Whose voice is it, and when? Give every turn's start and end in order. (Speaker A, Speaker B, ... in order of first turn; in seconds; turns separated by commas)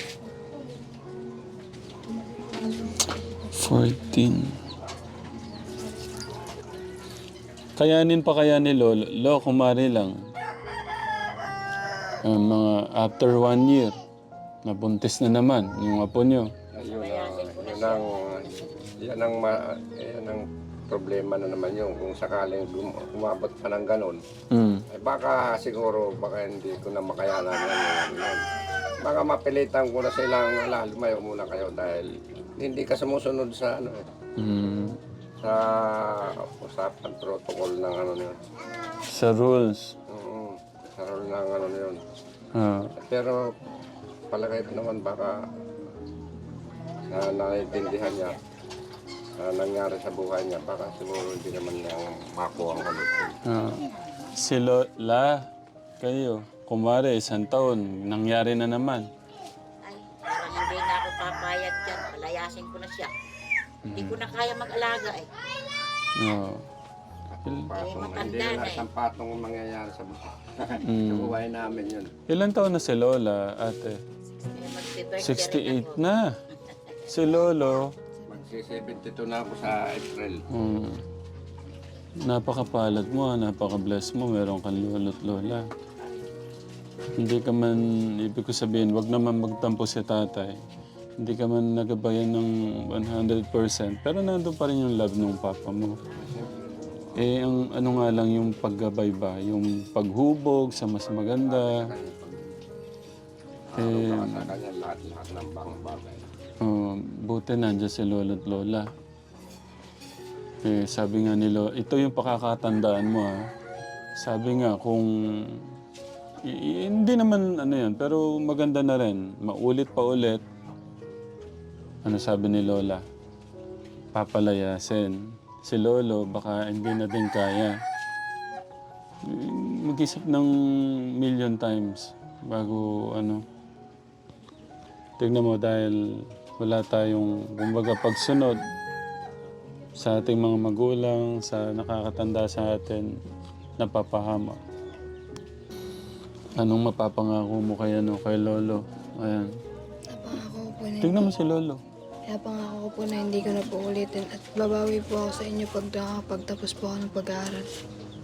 Speaker A: 3.5-4.5, Speaker A: 7.8-10.2, Speaker A: 12.2-13.9, Speaker A: 14.7-16.5, Speaker B: 16.7-24.2, Speaker C: 16.8-18.7, Speaker A: 24.5-24.8, Speaker B: 24.9-28.4, Speaker B: 29.0-34.1, Speaker A: 34.4-35.0, Speaker B: 35.4-38.4, Speaker A: 39.1-39.9, Speaker B: 40.1-42.0, Speaker A: 42.5-42.9, Speaker B: 43.0-43.4, Speaker B: 44.3-45.4, Speaker B: 47.1-48.4, Speaker C: 47.7-48.4, Speaker B: 49.4-53.4, Speaker A: 53.5-53.8, Speaker A: 54.4-55.4, Speaker A: 56.0-59.0, Speaker C: 59.8-63.1, Speaker A: 63.8-64.2, Speaker C: 63.9-65.3, Speaker A: 66.2-66.6, Speaker B: 67.3-72.1, Speaker C: 67.7-68.8, Speaker A: 70.8-71.3, Speaker A: 72.3-74.0, Speaker C: 74.5-76.0, Speaker A: 75.2-76.3, Speaker A: 77.1-77.9, Speaker B: 78.3-80.4, Speaker A: 80.5-81.0, Speaker A: 82.3-85.7, Speaker A: 87.2-90.6, Speaker A: 91.2-96.0, Speaker B: 96.1-97.1, Speaker A: 97.2-101.8, Speaker B: 101.3-102.5, Speaker B: 103.7-106.2, Speaker A: 103.8-104.5, Speaker A: 106.6-108.9, Speaker A: 110.6-113.4, Speaker A: 114.2-115.6, Speaker A: 116.5-120.4, Speaker A: 122.0-123.0, Speaker A: 124.1-127.7, Speaker A: 129.3-130.5, Speaker A: 131.2-133.4, Speaker A: 135.2-136.0, Speaker A: 136.6-138.6, Speaker A: 140.0-143.1, Speaker A: 143.8-144.6, Speaker A: 146.6-149.5, Speaker D: 150.1-151.3, Speaker A: 151.0-151.8, Speaker D: 152.3-157.7